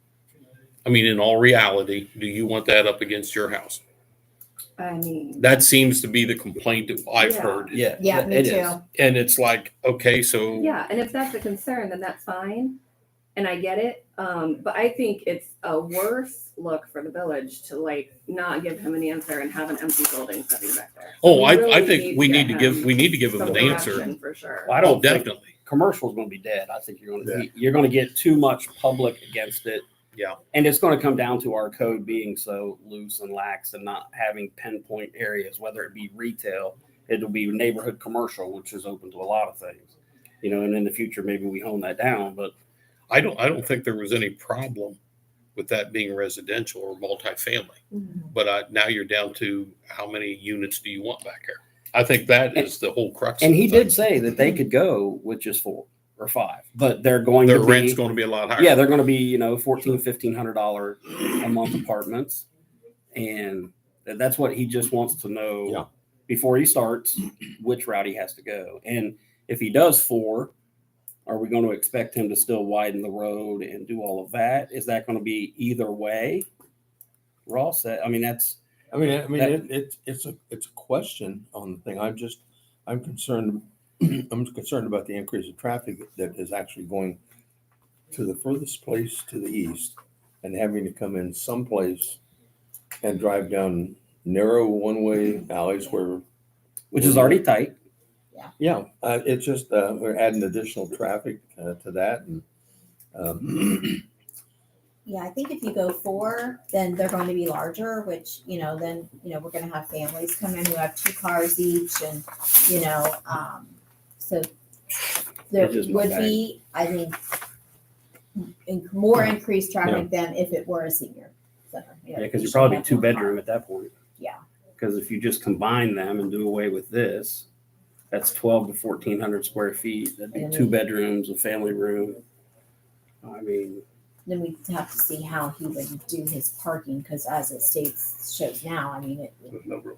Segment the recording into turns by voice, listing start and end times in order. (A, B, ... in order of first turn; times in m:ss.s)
0:00.8-0:03.8 A
0:04.8-0:05.5 B
0:05.4-0:07.9 A
0:07.2-0:07.8 B
0:07.7-0:08.8 C
0:08.0-0:08.8 D
0:08.9-0:10.7 A
0:10.5-0:12.8 B
0:13.4-0:24.8 B
0:21.2-0:24.1 A
0:24.6-0:29.8 C
0:24.8-0:25.5 A
0:30.5-0:42.5 C
0:43.1-0:45.0 A
0:45.6-0:54.0 A
0:47.9-0:48.3 B
0:53.4-0:58.0 C
0:57.4-0:58.8 A
0:58.6-1:02.4 C
1:03.1-1:10.5 C
1:11.3-1:16.5 C
1:17.5-1:18.6 C
1:18.9-1:27.2 E
1:19.3-1:19.6 C
1:28.1-1:32.2 E
1:33.0-1:36.2 E
1:36.9-1:37.8 C
1:37.0-1:37.4 E
1:38.6-1:42.4 E
1:43.1-1:44.0 E
1:45.1-1:57.2 D
1:55.5-1:56.4 C
1:58.4-2:03.4 D
2:02.2-2:03.9 C
2:04.8-2:07.4 C
2:08.1-2:12.2 C
2:10.3-2:10.7 D
2:13.2-2:13.8 C
2:14.2-2:19.7 D